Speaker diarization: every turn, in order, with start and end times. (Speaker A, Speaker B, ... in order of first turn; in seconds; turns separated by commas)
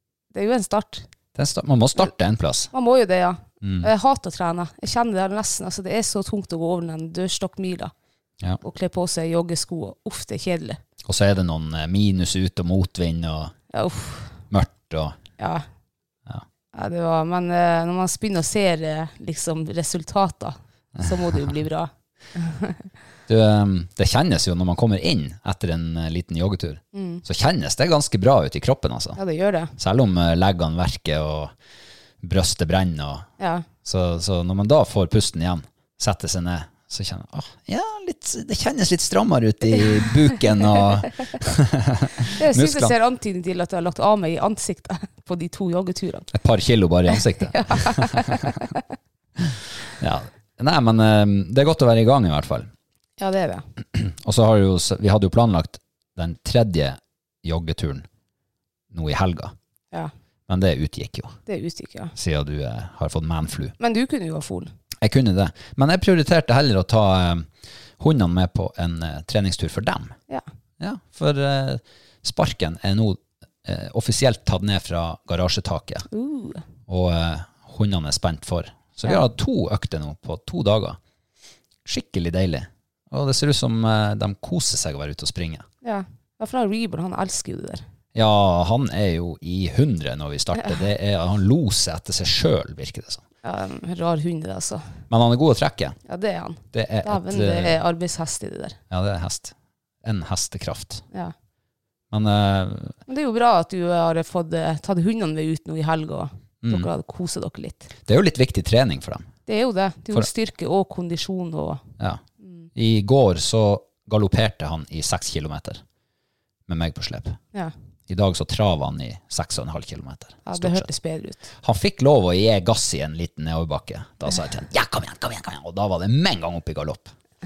Speaker A: 0.3-1.1, Speaker B: 1.3-2.7, Speaker A: 2.7-7.9, Speaker B: 3.6-3.9, Speaker A: 8.6-10.8, Speaker B: 11.0-13.5, Speaker A: 13.7-14.4, Speaker B: 14.5-15.2, Speaker A: 15.4-15.6, Speaker A: 16.7-22.8, Speaker B: 21.0-21.2, Speaker B: 23.3-29.2, Speaker A: 26.9-27.2, Speaker A: 29.1-29.7, Speaker B: 29.8-31.5, Speaker B: 32.2-33.3, Speaker A: 33.4-33.6, Speaker B: 33.8-42.9, Speaker A: 39.7-40.0, Speaker A: 42.3-46.3, Speaker B: 46.3-48.3, Speaker A: 47.1-48.8, Speaker B: 49.4-52.7, Speaker A: 53.2-53.6, Speaker B: 53.9-58.1, Speaker B: 58.9-59.5, Speaker B: 60.5-61.4, Speaker A: 61.5-62.1, Speaker B: 62.1-63.7, Speaker A: 63.8-64.7, Speaker B: 65.0-70.1, Speaker B: 70.8-76.0, Speaker A: 76.1-76.6, Speaker B: 76.9-81.0, Speaker B: 81.8-85.7, Speaker A: 85.8-87.8, Speaker B: 88.1-93.2, Speaker A: 93.4-94.8, Speaker B: 95.1-96.0, Speaker A: 96.0-98.8, Speaker B: 96.7-97.8, Speaker B: 98.9-101.0, Speaker B: 102.1-103.0, Speaker A: 103.1-107.9, Speaker B: 106.6-106.9, Speaker B: 108.0-109.3, Speaker A: 109.5-111.8, Speaker B: 112.7-115.8, Speaker B: 116.7-117.4, Speaker B: 118.1-120.9, Speaker A: 120.4-121.5, Speaker B: 121.6-127.1